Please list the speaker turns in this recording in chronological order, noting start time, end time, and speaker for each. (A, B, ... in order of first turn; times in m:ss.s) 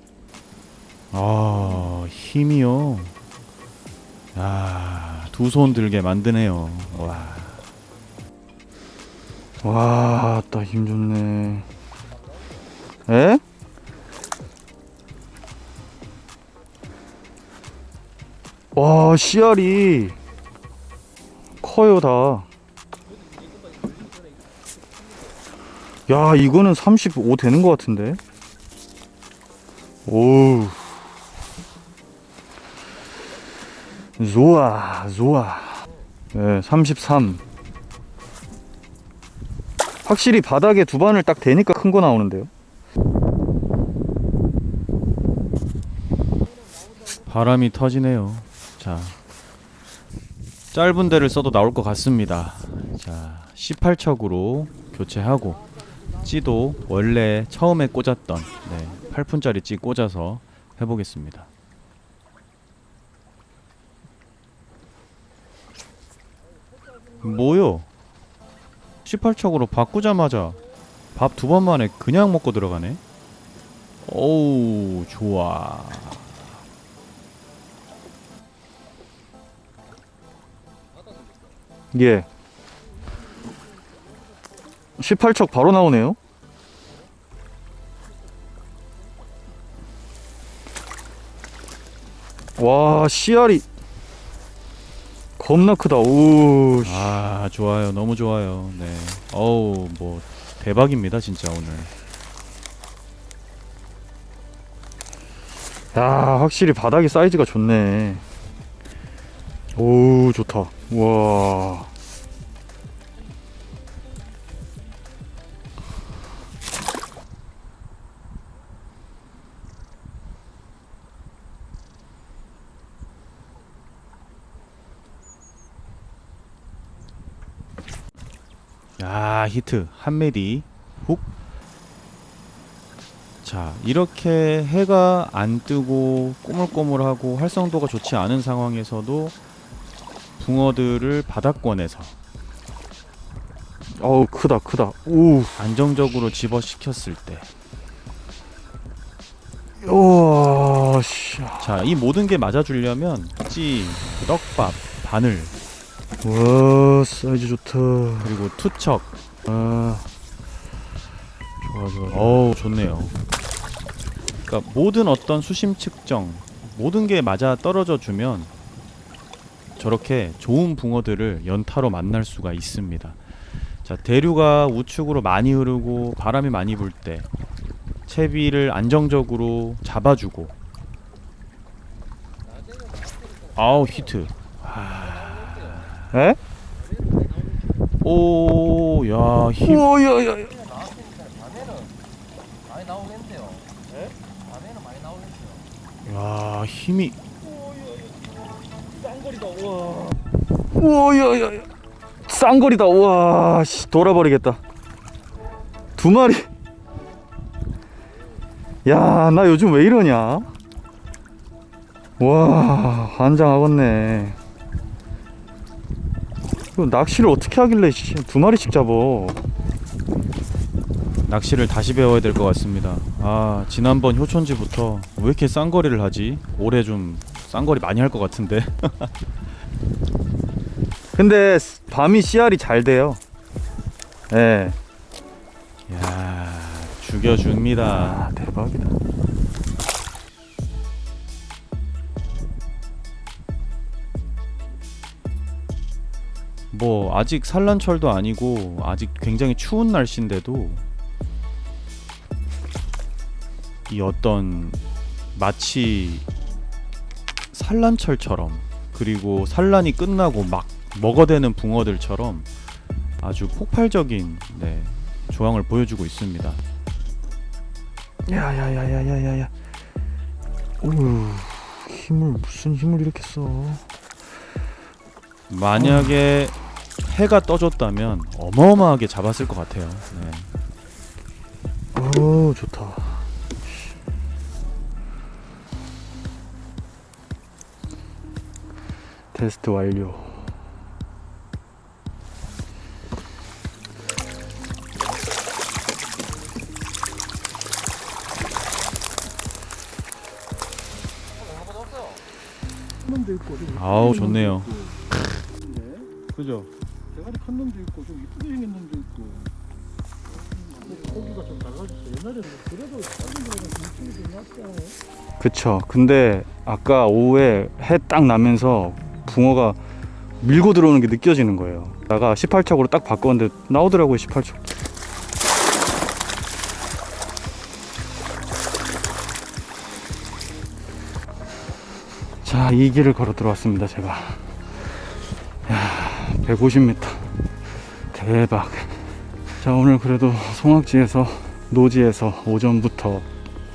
0:01.1-0:03.1 A
0:04.3-0:07.6 A
0:09.6-0:11.7 B
0:13.1-0:13.4 B
0:18.7-0:20.2 B
0:21.6-0:22.5 B
0:26.1-0:28.2 B
0:30.0-0:30.8 B
0:34.2-0:37.4 B
0:40.0-0:42.5 B
0:47.2-0:49.2 A
0:50.7-0:55.6 A
0:56.2-1:01.5 A
1:07.2-1:07.9 A
1:09.0-1:10.6 A
1:11.1-1:13.0 A
1:14.0-1:16.4 A
1:21.9-1:22.3 B
1:25.0-1:26.2 B
1:32.6-1:33.6 B
1:35.4-1:37.2 B
1:36.8-1:41.9 A
1:45.9-1:48.2 B
1:49.7-1:51.9 B
2:09.0-2:11.3 A
2:13.4-2:19.4 A
2:20.4-2:22.1 A
2:24.0-2:25.5 B
2:25.6-2:27.5 A
2:29.8-2:31.8 B
2:31.6-2:35.5 A
2:36.2-2:38.3 B
2:38.2-2:39.1 A
2:39.4-2:40.1 B
2:41.6-2:42.4 B
2:42.1-2:43.2 A
2:44.4-2:48.5 A
2:49.8-2:53.2 A
2:53.8-2:57.3 A
2:58.1-3:00.5 A
3:03.5-3:06.1 A
3:06.1-3:06.4 B
3:08.0-3:09.9 A
3:09.6-3:10.6 B
3:10.8-3:11.9 C
3:12.8-3:13.6 C
3:14.6-3:15.4 C
3:16.0-3:17.2 A
3:20.7-3:21.7 B
3:22.3-3:24.6 B
3:26.0-3:26.5 B
3:28.8-3:30.5 B
3:32.2-3:34.4 B
3:36.7-3:39.4 B
3:41.3-3:49.1 A
3:51.2-3:53.2 B
3:54.3-3:54.8 B
3:55.9-3:58.3 A
3:57.8-3:59.0 B
4:06.7-4:10.8 A
4:13.9-4:14.8 A
4:15.3-4:16.2 A
4:17.5-4:22.5 A
4:23.2-4:26.6 A
4:28.2-4:29.5 B
4:30.8-4:33.8 B
4:35.5-4:40.5 A
4:35.8-4:36.2 B
4:41.9-4:43.9 B
4:49.3-4:50.5 B
5:03.2-5:03.6 D
5:03.7-5:04.9 A
5:05.7-5:06.1 D
5:07.2-5:09.4 D
5:10.9-5:14.9 D
5:15.4-5:19.8 B
5:20.4-5:24.7 B
5:32.4-5:34.5 B
5:35.6-5:37.4 B
5:38.1-5:43.2 B